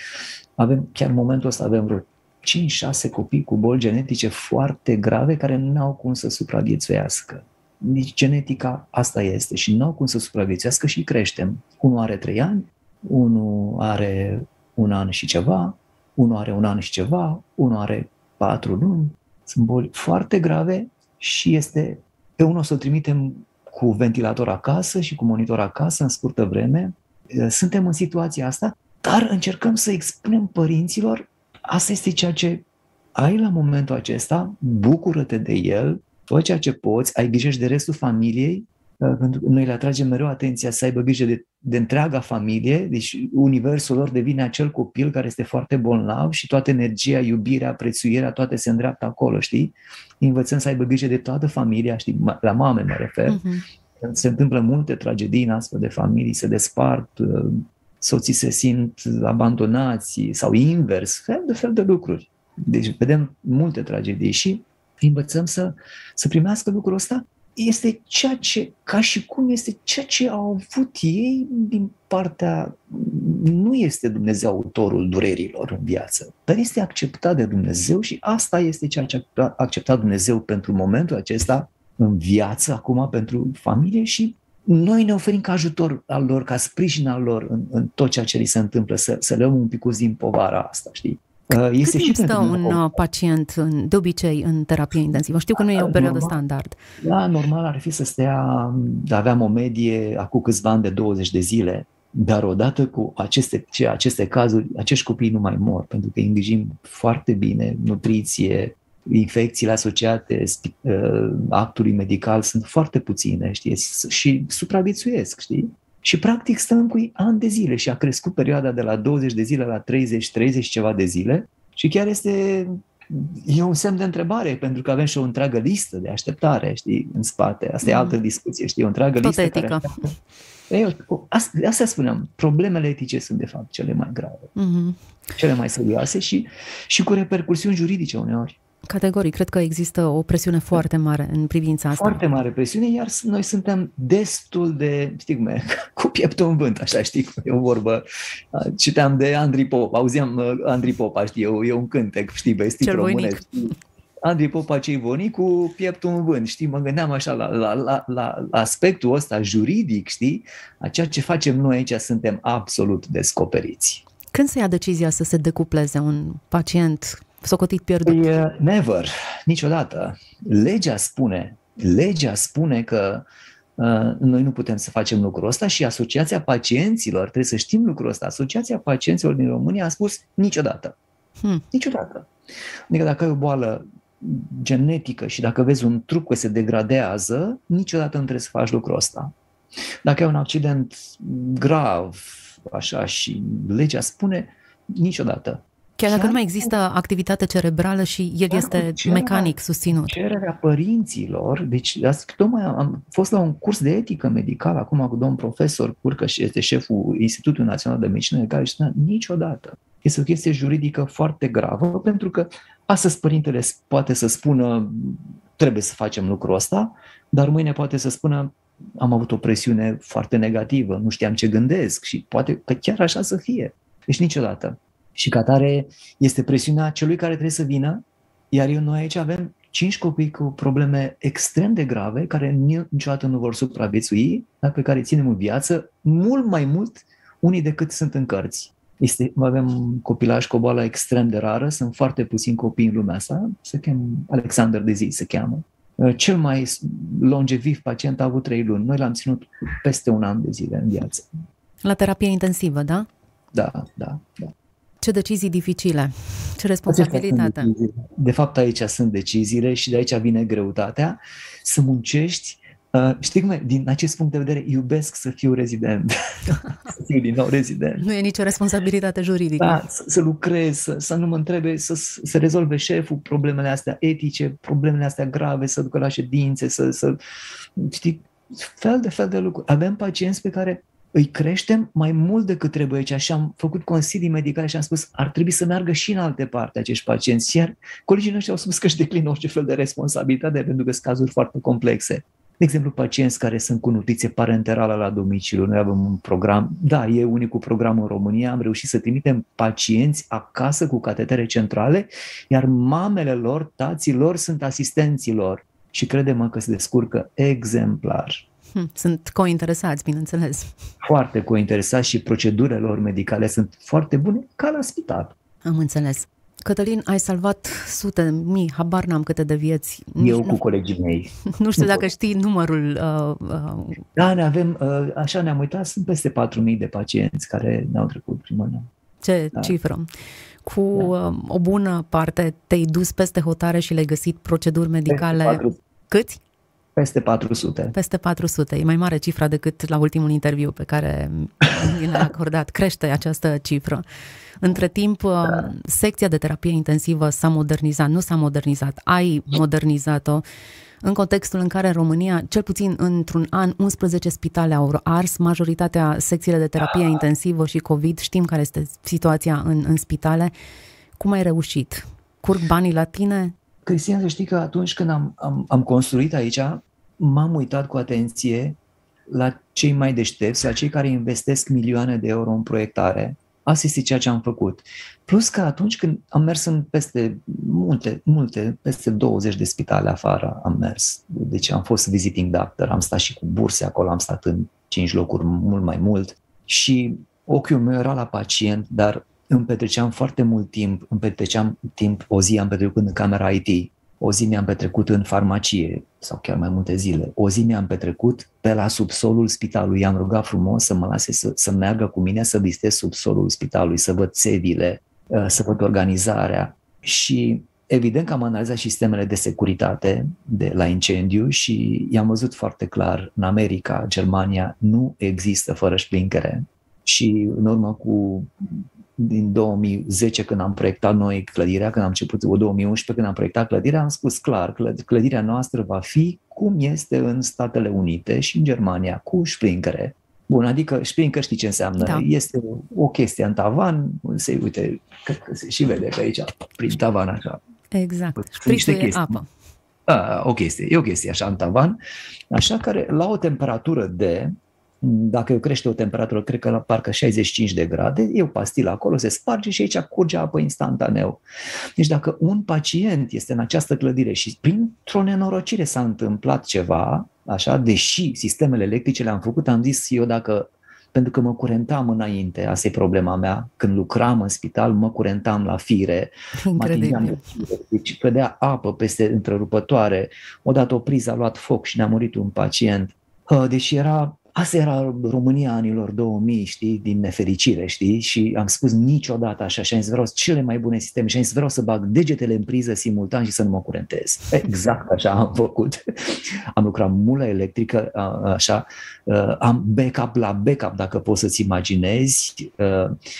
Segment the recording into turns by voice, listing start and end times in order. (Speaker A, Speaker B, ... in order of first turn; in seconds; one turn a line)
Speaker A: 0.6-53.4
Speaker B: 53.3-53.6
Speaker A: 54.0-93.0
Speaker B: 91.8-96.8
Speaker A: 95.6-96.3
Speaker A: 97.0-130.1
Speaker B: 127.8-128.2
Speaker B: 129.2-130.1
Speaker A: 130.7-134.5
Speaker B: 134.6-135.0
Speaker A: 135.4-138.6
Speaker B: 138.9-142.2
Speaker A: 141.9-153.7
Speaker B: 152.8-153.5
Speaker A: 154.2-164.0
Speaker B: 164.3-168.3
Speaker A: 168.0-173.2
Speaker A: 173.8-180.9
Speaker A: 181.7-182.3
Speaker A: 182.9-189.3
Speaker A: 190.0-196.7
Speaker B: 196.0-200.1
Speaker A: 198.5-251.4
Speaker B: 251.8-253.1
Speaker A: 253.5-254.5
Speaker B: 255.0-257.7
Speaker A: 256.9-268.0
Speaker B: 268.0-269.8
Speaker A: 269.6-277.1
Speaker A: 277.8-308.4
Speaker B: 308.7-310.7
Speaker A: 311.0-315.3
Speaker B: 315.6-320.6
Speaker A: 320.2-322.1
Speaker B: 321.5-324.0
Speaker A: 324.1-328.9
Speaker B: 329.2-330.1
Speaker B: 330.6-336.4
Speaker A: 335.1-335.7
Speaker A: 336.9-337.9
Speaker B: 337.9-344.0
Speaker B: 344.6-350.4
Speaker B: 351.0-360.5
Speaker A: 356.8-357.2
Speaker B: 361.1-363.5
Speaker A: 363.9-418.5
Speaker A: 419.1-437.6
Speaker B: 432.0-432.2
Speaker B: 437.9-439.5
Speaker A: 438.6-439.4
Speaker A: 440.1-442.0
Speaker A: 442.5-451.4
Speaker A: 452.0-493.1
Speaker B: 466.6-467.6